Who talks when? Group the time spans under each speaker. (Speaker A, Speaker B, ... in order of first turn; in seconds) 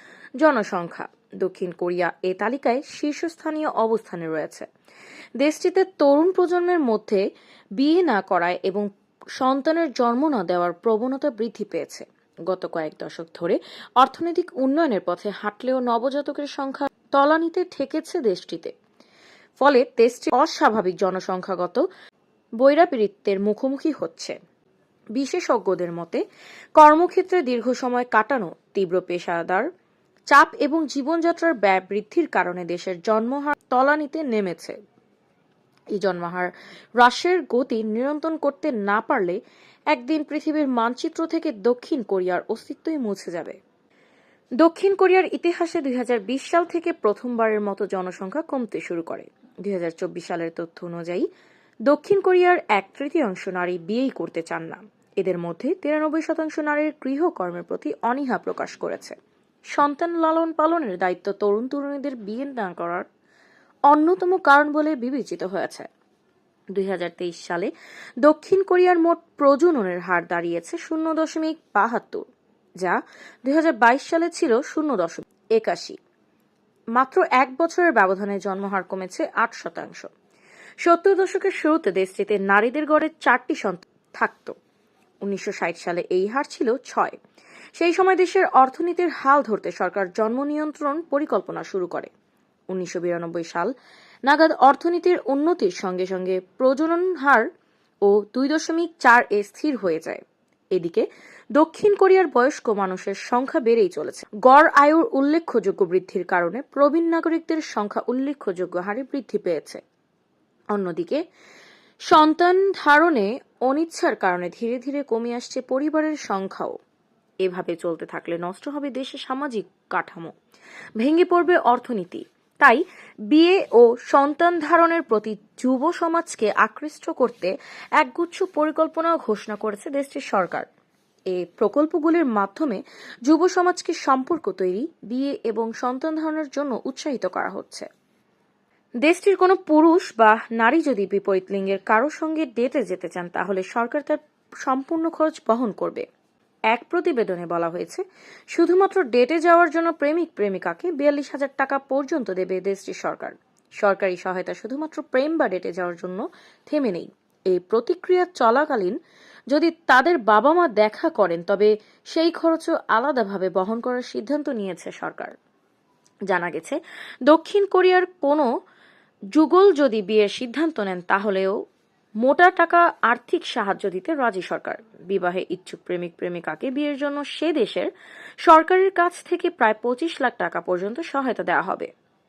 Speaker A: 0.4-4.7, 5.4-7.2, 7.8-18.7, 19.6-21.8, 22.6-24.4, 25.1-26.2, 26.8-29.7, 30.3-34.8, 35.9-39.4, 39.9-43.6, 44.6-51.3, 51.9-59.2, 59.7-63.1, 63.9-65.9, 66.7-67.7, 68.2-72.3, 72.8-76.0, 77.0-80.1, 80.8-84.5, 85.2-87.2, 87.8-92.1, 92.7-93.7, 94.3-97.5, 98.0-100.2, 100.7-101.0, 101.6-109.8, 110.7-111.2, 112.1-116.8, 117.4-120.3, 121.0-130.7, 131.3-137.9, 139.0-146.1, 146.7-159.0, 159.5-165.3, 166.3-168.5, 169.3-171.6, 172.2-177.9, 178.4-181.9